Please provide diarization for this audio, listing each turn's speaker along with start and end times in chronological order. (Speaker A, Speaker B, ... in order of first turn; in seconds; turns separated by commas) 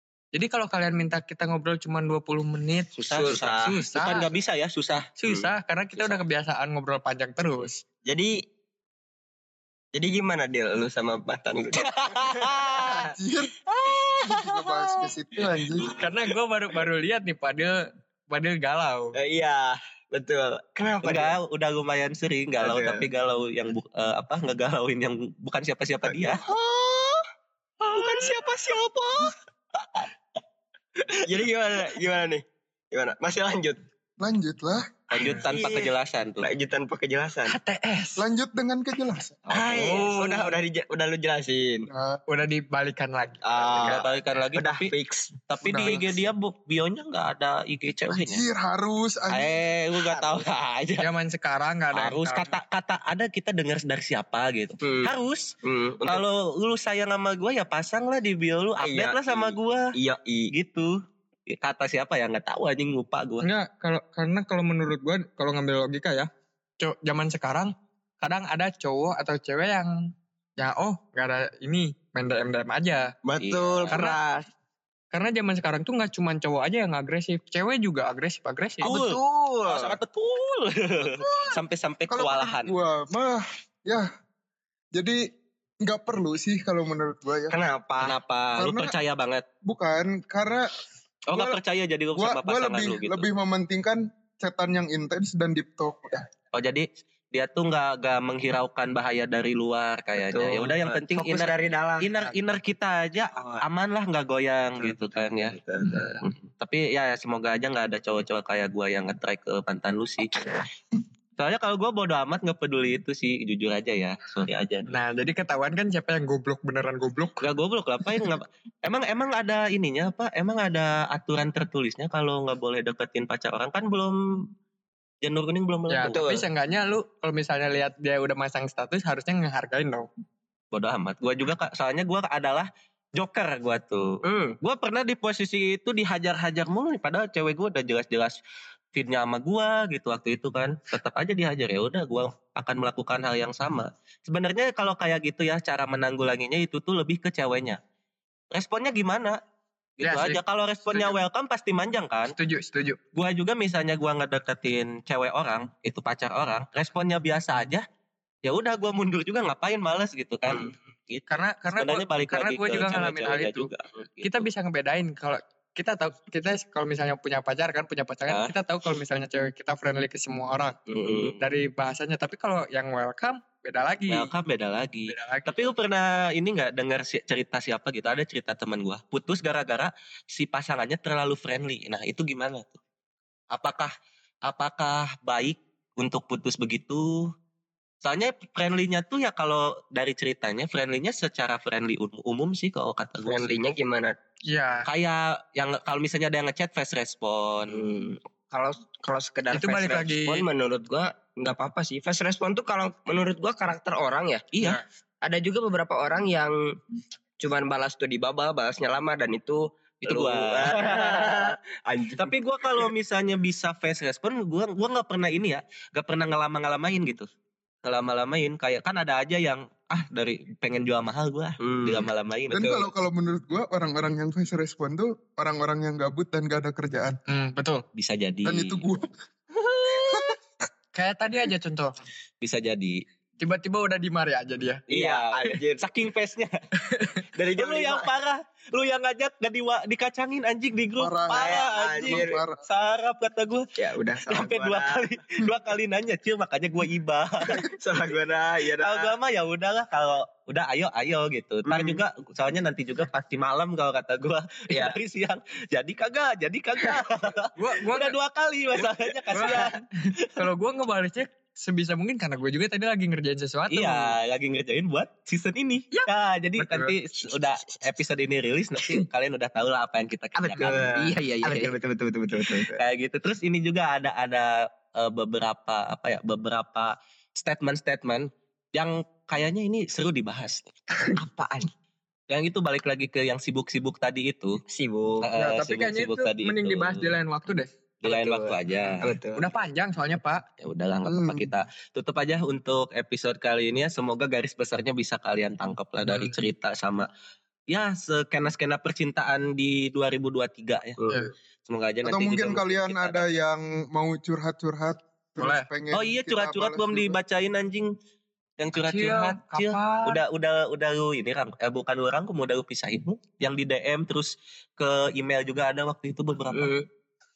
Speaker A: 0.3-4.2, Speaker B: 3.0-5.1, Speaker C: 3.1-3.8, Speaker A: 5.2-7.8, Speaker C: 8.1-8.3, Speaker C: 9.9-13.1, Speaker B: 11.8-13.1, Speaker D: 12.9-13.6, Speaker B: 13.8-14.5, Speaker D: 14.2-16.0, Speaker A: 15.9-17.8, Speaker A: 18.3-19.1, Speaker C: 19.1-21.3, Speaker B: 21.0-26.4, Speaker C: 22.6-23.0, Speaker C: 26.0-27.2, Speaker C: 27.9-29.3, Speaker C: 31.1-33.8, Speaker D: 34.2-34.9, Speaker B: 35.1-36.5, Speaker C: 35.1-37.5, Speaker A: 37.5-38.2, Speaker D: 38.2-39.6, Speaker C: 39.5-41.9, Speaker A: 39.6-40.6, Speaker D: 41.9-42.2, Speaker A: 42.3-44.0, Speaker C: 43.4-45.3, Speaker B: 43.8-44.9, Speaker B: 45.5-48.4, Speaker D: 45.6-46.0, Speaker D: 48.1-49.5, Speaker B: 49.3-51.0, Speaker C: 50.0-50.5, Speaker A: 51.0-52.6, Speaker B: 51.9-55.5, Speaker C: 54.8-55.1, Speaker C: 55.6-56.2, Speaker B: 56.1-59.8, Speaker C: 58.8-60.5, Speaker B: 60.5-61.0, Speaker B: 61.5-63.4, Speaker A: 63.4-66.3, Speaker A: 66.8-73.1, Speaker C: 73.2-74.5, Speaker B: 73.4-74.0, Speaker A: 73.9-74.2, Speaker A: 75.1-78.9, Speaker C: 78.8-80.0, Speaker B: 78.8-82.7, Speaker D: 82.1-84.1, Speaker D: 84.9-85.2, Speaker D: 85.8-87.5, Speaker C: 87.5-88.2, Speaker B: 88.0-89.4, Speaker D: 88.5-88.9, Speaker D: 89.6-91.6, Speaker B: 91.3-93.2, Speaker D: 92.2-96.2, Speaker B: 96.5-105.6, Speaker C: 100.1-102.3, Speaker C: 103.3-103.6, Speaker C: 104.8-106.2, Speaker B: 106.2-110.5, Speaker B: 111.4-114.9, Speaker A: 114.9-117.4, Speaker B: 117.4-124.4, Speaker B: 125.2-126.3, Speaker A: 125.9-130.1, Speaker C: 126.0-126.4, Speaker B: 130.7-138.3, Speaker C: 134.2-134.6, Speaker B: 138.9-147.8, Speaker B: 148.5-149.4, Speaker B: 150.0-152.3, Speaker A: 150.0-151.2, Speaker A: 152.3-153.0, Speaker B: 153.1-157.8, Speaker B: 158.4-164.5, Speaker C: 160.5-160.7, Speaker A: 161.3-163.7, Speaker A: 164.2-170.8, Speaker C: 170.9-171.4, Speaker A: 171.4-174.3, Speaker B: 174.1-182.8, Speaker A: 175.1-175.7, Speaker B: 183.5-183.9, Speaker B: 184.4-187.3, Speaker B: 188.0-193.5, Speaker C: 193.2-194.2, Speaker A: 194.4-194.9, Speaker B: 194.8-197.8, Speaker C: 197.7-204.7, Speaker A: 199.5-200.4, Speaker B: 204.5-204.8, Speaker C: 205.2-206.8, Speaker C: 207.4-212.9, Speaker B: 210.0-211.5, Speaker B: 212.2-217.3, Speaker B: 217.8-222.8, Speaker C: 221.6-222.1, Speaker D: 222.5-227.2, Speaker A: 227.3-227.8, Speaker B: 227.9-228.8, Speaker D: 228.4-229.1, Speaker D: 229.9-230.3, Speaker A: 230.9-232.0, Speaker B: 232.4-233.0, Speaker A: 233.4-234.8, Speaker C: 234.9-235.8, Speaker B: 234.9-236.6, Speaker C: 237.3-238.1, Speaker B: 237.6-243.6, Speaker D: 241.0-242.6, Speaker C: 241.3-242.4, Speaker C: 243.8-245.0, Speaker B: 244.3-247.6, Speaker C: 247.6-249.1, Speaker B: 248.8-260.4, Speaker C: 251.7-252.0, Speaker C: 254.7-254.9, Speaker A: 257.6-258.1, Speaker C: 258.8-259.8, Speaker A: 259.3-259.7, Speaker A: 260.4-264.1, Speaker B: 263.7-271.7, Speaker A: 265.9-266.9, Speaker C: 267.1-267.8, Speaker C: 270.4-272.8, Speaker B: 272.4-280.7, Speaker C: 281.0-281.7, Speaker B: 282.3-284.6, Speaker C: 284.7-285.3, Speaker B: 285.2-287.1, Speaker A: 285.4-287.7, Speaker B: 288.0-289.1, Speaker C: 288.0-289.4, Speaker A: 289.4-290.4, Speaker B: 290.6-297.1, Speaker D: 291.1-291.4, Speaker B: 297.7-301.0, Speaker B: 301.7-303.2, Speaker D: 302.0-307.2, Speaker A: 305.4-305.7, Speaker B: 305.9-307.9, Speaker B: 308.6-316.7, Speaker A: 308.8-310.2, Speaker C: 316.5-316.9